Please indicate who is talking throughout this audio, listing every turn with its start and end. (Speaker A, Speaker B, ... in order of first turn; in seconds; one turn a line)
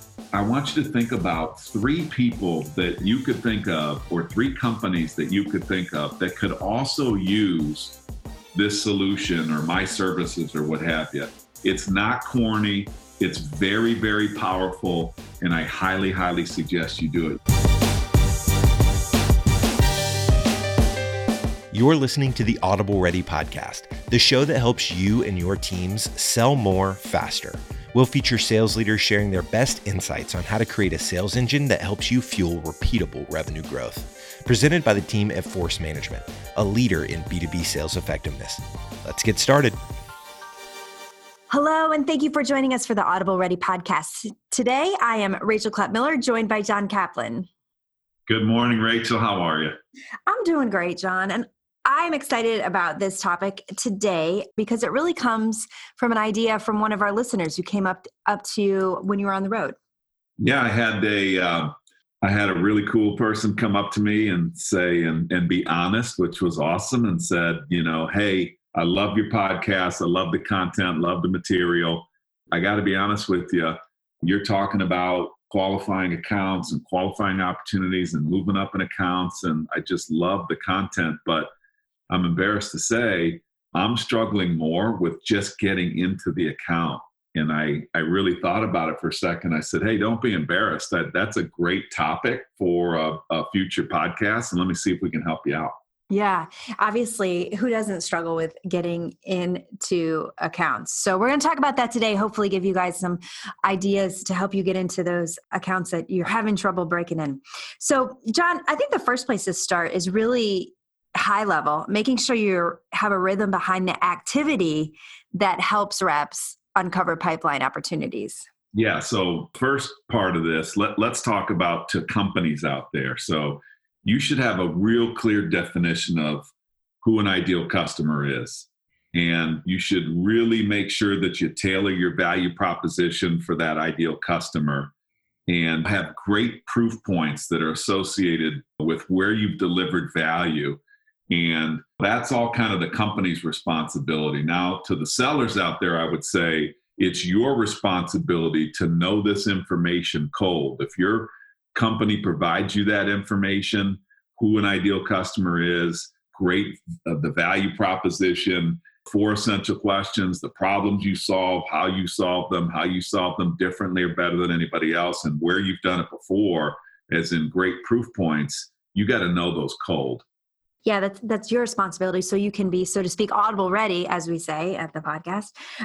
Speaker A: 0.3-8.0
Speaker A: 8.5-17.4
Speaker B: 21.7-39.8
Speaker C: 41.5-47.5
Speaker A: 48.3-49.8
Speaker C: 50.3-59.8
Speaker A: 60.4-81.5
Speaker A: 82.1-95.7
Speaker C: 96.1-118.5
Speaker A: 118.7-126.5
Speaker A: 127.0-134.9
Speaker A: 135.5-170.2
Speaker C: 170.8-175.5